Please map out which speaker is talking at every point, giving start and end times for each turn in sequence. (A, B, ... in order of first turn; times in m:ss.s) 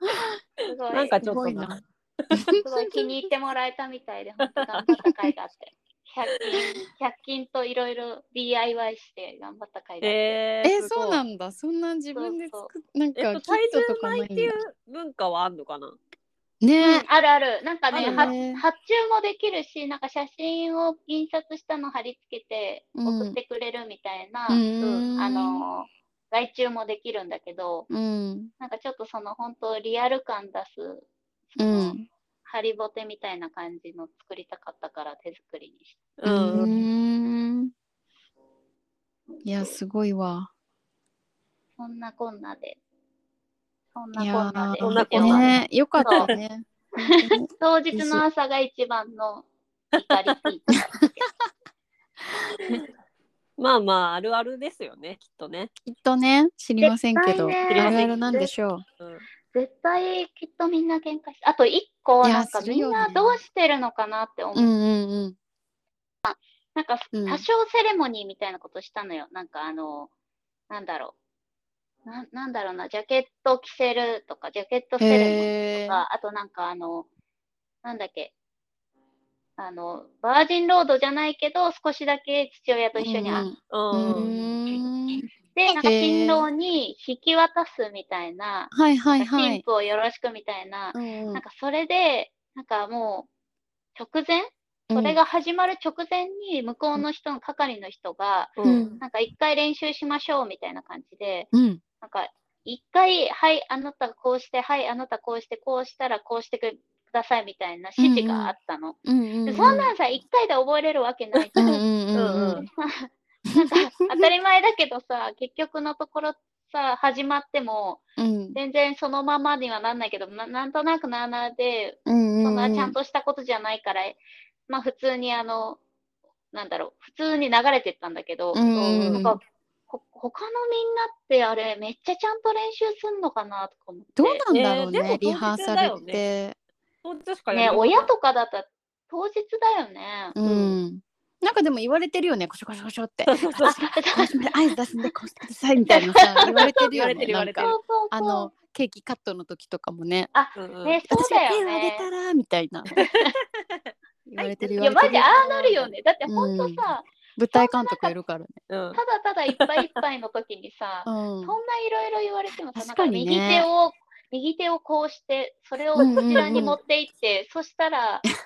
0:00.6-0:01.2 A
0:00.9-0:02.5 B
0:01.2-0:01.8 C
0:02.3-0:03.0 C
0:02.6-0:10.4 A
0:04.4-0:05.0 B
0:10.0-0:11.2 B
0:10.6-0:14.6 C
0:12.2-0:12.7 A
0:13.2-0:16.0 B
0:16.6-0:17.0 C
0:16.8-0:27.9 A
0:17.9-0:18.3 B
0:17.9-0:18.6 C
0:23.0-0:23.4 C
0:24.5-0:25.6 C
0:24.8-0:25.1 B
0:27.9-0:28.5 C
0:28.6-0:32.0 A
0:31.6-0:32.1 C
0:32.5-0:36.0 A
0:36.2-0:36.7 B
0:36.3-0:37.7 C
0:39.4-0:40.5 C
0:41.8-0:42.8 A
0:44.0-0:46.3 A
0:44.2-0:48.2 C
0:44.8-0:46.4 B
0:47.0-0:51.1 A
0:50.0-0:50.4 B
0:53.6-0:55.7 B
0:55.8-0:58.8 C
0:56.8-0:58.5 A
0:57.7-0:58.2 B
0:59.0-0:59.3 B
0:59.5-1:04.7 A
1:02.2-1:03.4 C
1:04.5-1:05.4 C
1:06.2-1:10.1 A
1:07.1-1:07.4 C
1:10.7-1:11.2 A
1:12.0-1:17.1 A
1:15.0-1:16.0 C
1:17.8-1:18.3 A
1:19.6-1:23.5 A
1:23.0-1:26.5 C
1:23.7-1:24.3 B
1:25.6-1:33.3 A
1:28.7-1:29.6 C
1:30.9-1:31.4 C
1:34.0-1:41.5 A
1:34.9-1:35.2 C
1:38.6-1:38.9 B
1:38.6-1:39.0 C
1:41.5-1:41.8 C
1:42.0-1:51.8 A
1:48.0-1:48.5 C
1:49.0-1:49.9 C
1:51.6-1:52.6 C
1:52.1-1:52.6 B
1:52.6-1:58.0 A
1:53.5-1:54.3 C
1:58.2-1:58.6 C
1:58.6-2:05.8 A
2:02.1-2:03.0 C
2:06.5-2:14.4 A
2:08.5-2:09.4 C
2:08.8-2:09.3 B
2:14.2-2:16.6 C
2:14.5-2:16.2 B
2:17.0-2:18.1 B
2:17.5-2:20.4 A
2:20.4-2:30.3 C
2:20.4-2:20.8 B
2:23.3-2:23.8 B
2:23.6-2:24.5 A
2:25.9-2:28.5 A
2:26.9-2:27.8 B
2:30.3-2:32.1 A
2:30.6-2:31.0 B
2:31.1-2:32.9 C
2:33.0-2:33.3 A
2:33.0-2:35.9 B
2:34.3-2:35.3 C
2:34.8-2:38.1 A
2:36.3-2:36.8 C
2:37.4-2:38.6 C
2:38.7-2:39.0 B
2:38.9-2:48.3 A
2:39.6-2:40.0 B
2:41.1-2:41.6 C
2:42.8-2:43.7 C
2:46.0-2:46.8 C
2:46.0-2:46.7 B